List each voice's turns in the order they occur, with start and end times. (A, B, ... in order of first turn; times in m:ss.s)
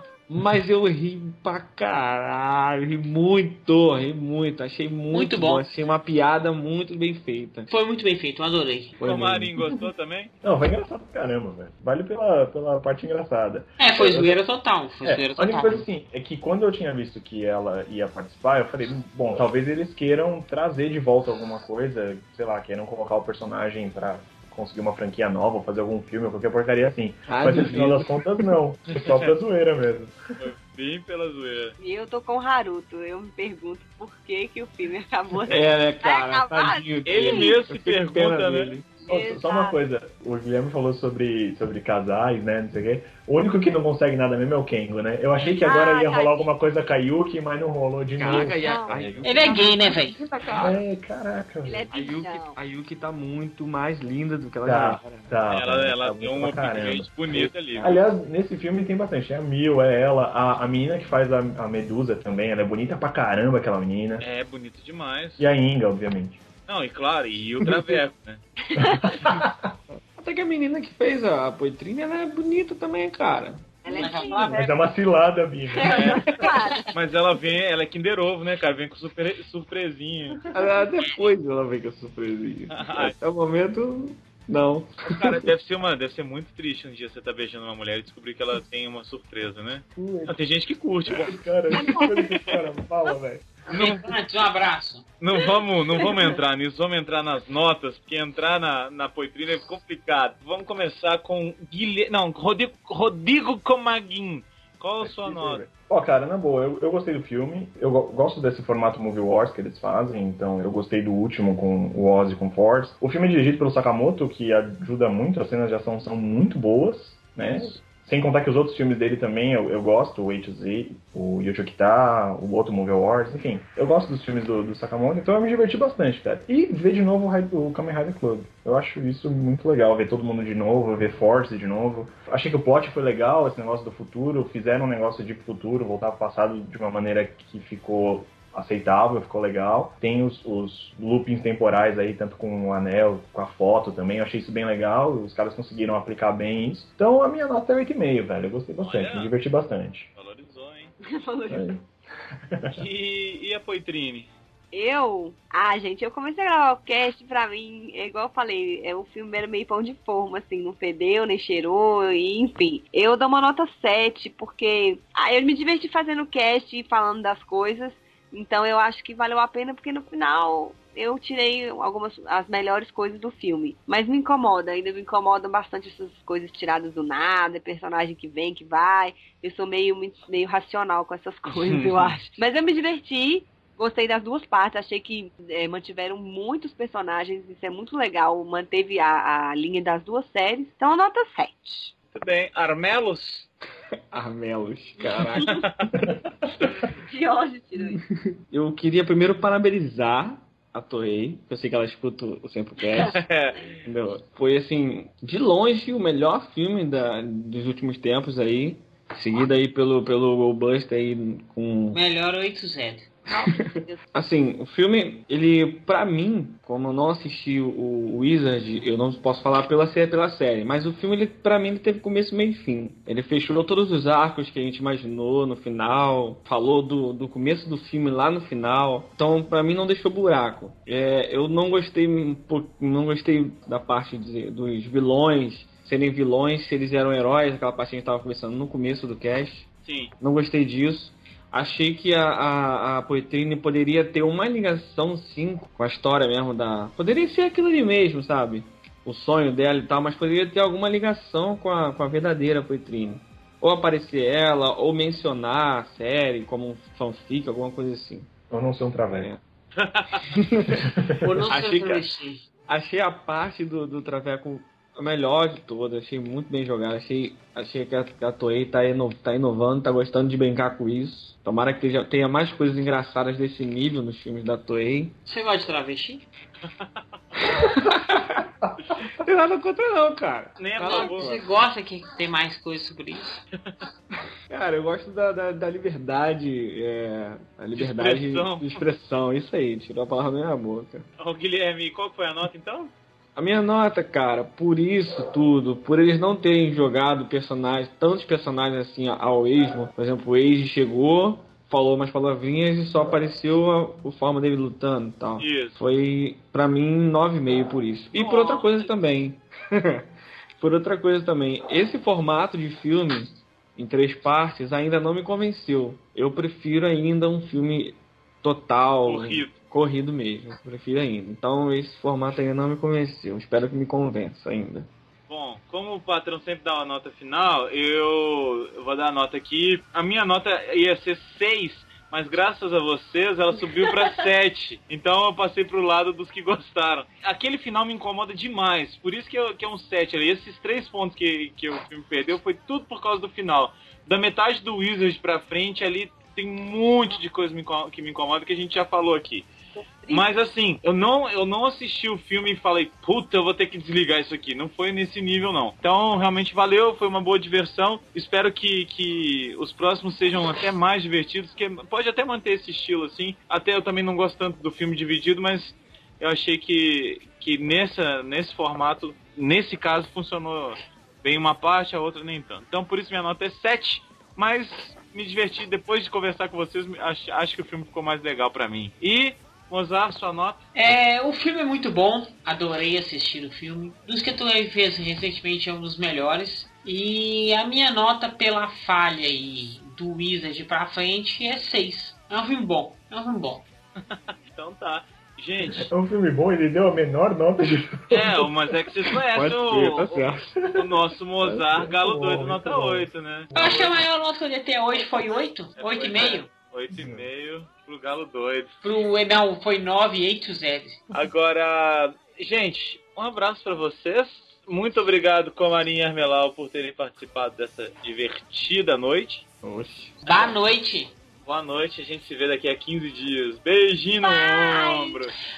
0:00.3-0:07.7 A
0:05.1-0:05.6 B
0:07.7-0:08.9 B
0:09.0-0:09.6 A
0:09.0-0:10.3 C
0:10.4-0:14.4 D
0:13.8-0:15.9 B
0:15.0-0:30.1 D
0:27.3-0:28.5 A
0:28.9-0:29.3 C
0:30.4-0:31.8 C
0:31.8-0:37.6 E
0:35.5-0:38.9 A
0:37.0-0:38.8 C
0:39.0-0:39.8 E
0:39.1-0:49.4 D
0:45.4-0:46.5 E
0:48.1-0:50.8 A
0:48.4-0:49.5 E
0:49.2-0:50.2 B
0:50.6-0:51.9 D
0:51.6-0:52.6 E
0:51.9-0:55.3 A
0:54.6-1:04.2 D
0:55.5-0:58.0 C
1:04.2-1:05.4 C
1:05.4-1:06.4 D
1:06.7-1:08.4 C
1:07.7-1:07.9 D
1:08.6-1:09.1 E
1:08.8-1:09.7 D
1:10.2-1:14.6 A
1:13.8-1:14.8 E
1:13.9-1:14.7 B
1:14.5-1:16.3 D
1:15.7-1:16.9 E
1:15.8-1:16.3 C
1:16.9-1:20.4 C
1:20.5-1:25.5 A
1:22.7-1:23.1 C
1:25.1-1:31.4 C
1:30.0-1:30.4 D
1:31.1-1:33.5 D
1:31.7-1:32.3 E
1:33.7-1:35.0 B
1:33.7-1:34.0 C
1:35.2-1:45.6 C
1:36.0-1:36.3 E
1:45.0-2:30.1 D
2:28.8-2:29.3 C
2:30.2-2:30.9 C
2:31.0-2:31.7 E
2:31.5-2:31.8 D
2:32.5-2:32.8 D
2:32.7-2:34.3 C
2:34.7-3:11.9 E
3:01.4-3:02.2 C
3:12.1-3:13.5 C
3:14.1-3:16.2 A
3:15.0-3:15.7 E
3:15.4-3:15.8 C
3:17.1-3:18.0 E
3:17.9-3:23.3 A
3:23.0-3:23.8 C
3:23.8-3:32.0 A
3:31.9-3:33.1 B
3:33.3-3:34.0 E
3:33.4-3:59.7 A
3:59.8-4:00.1 C
4:00.2-4:18.3 A
4:18.5-4:19.3 D
4:19.1-4:19.4 A
4:19.8-4:20.3 C
4:20.3-4:20.9 A
4:20.9-4:21.2 D
4:21.2-4:22.4 B
4:21.4-4:22.0 A
4:22.7-4:35.2 A
4:35.2-4:36.2 B
4:37.4-4:38.4 A
4:39.2-4:41.5 A
4:40.6-4:41.3 C
4:40.8-4:43.3 B
4:44.5-4:51.1 A
4:47.8-4:48.8 C
4:51.2-4:52.9 C
4:53.4-5:24.9 A
5:05.4-5:05.8 C
5:08.2-5:08.9 C
5:19.0-5:19.5 C
5:25.3-5:49.5 C
5:49.8-5:50.3 E
5:50.1-6:21.0 C
6:20.7-6:33.6 B
6:34.0-6:35.9 C
6:35.6-6:38.5 D
6:38.1-6:43.5 C
6:39.3-6:40.5 A
6:41.4-6:43.8 D
6:43.5-6:46.5 B
6:45.8-6:48.7 C
6:46.9-6:47.2 D
6:48.8-6:51.0 B
6:51.1-6:59.4 C
6:59.6-7:00.2 A
7:00.2-7:01.1 B
7:01.4-7:05.3 C
7:04.2-7:05.1 E
7:04.3-7:04.9 B